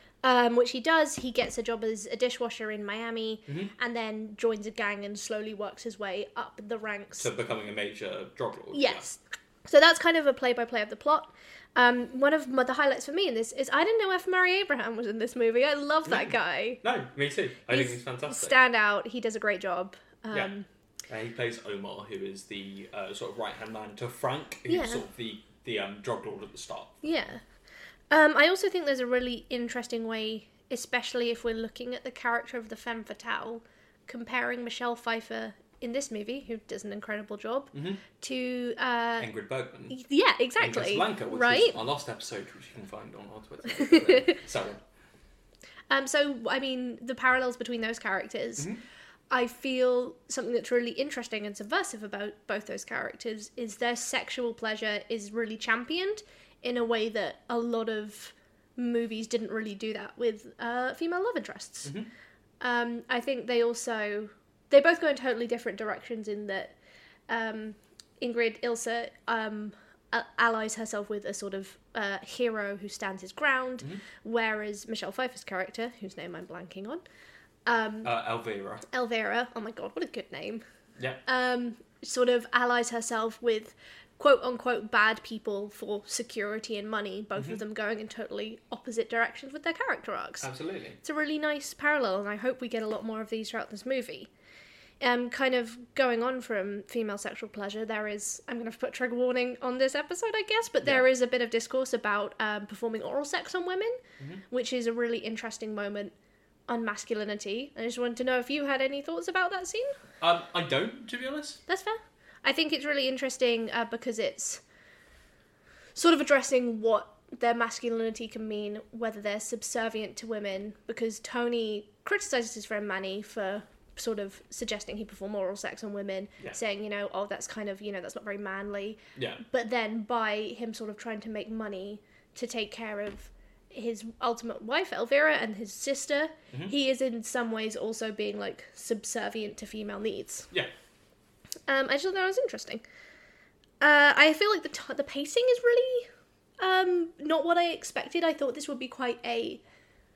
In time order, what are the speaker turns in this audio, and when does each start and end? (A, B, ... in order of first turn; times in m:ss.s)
0:00.2-0:07.3 A
0:03.5-0:03.7 B
0:07.2-0:09.0 B
0:08.7-0:16.8 A
0:16.1-0:18.6 B
0:17.7-0:20.7 A
0:21.1-0:27.0 B
0:24.7-0:25.0 A
0:27.0-0:27.4 A
0:28.1-0:39.3 A
0:37.7-0:38.0 B
0:39.2-0:40.0 B
0:39.9-0:41.8 A
0:40.6-0:44.8 B
0:43.7-0:44.4 A
0:45.9-0:48.7 A
0:49.3-1:01.9 A
1:01.8-1:02.1 B
1:02.6-1:06.8 A
1:07.3-1:17.0 A
1:17.7-1:18.1 A
1:18.0-1:18.8 B
1:18.9-1:20.6 A
1:21.3-1:30.5 A
1:30.4-1:31.0 B
1:31.0-1:34.3 A
1:35.0-1:44.0 A
1:44.5-1:46.1 A
1:46.7-1:49.9 A
1:50.2-1:51.6 B
1:51.7-1:54.6 A
1:56.0-2:20.5 A
2:09.2-2:09.4 B
2:21.7-2:22.8 A
2:23.8-2:29.6 A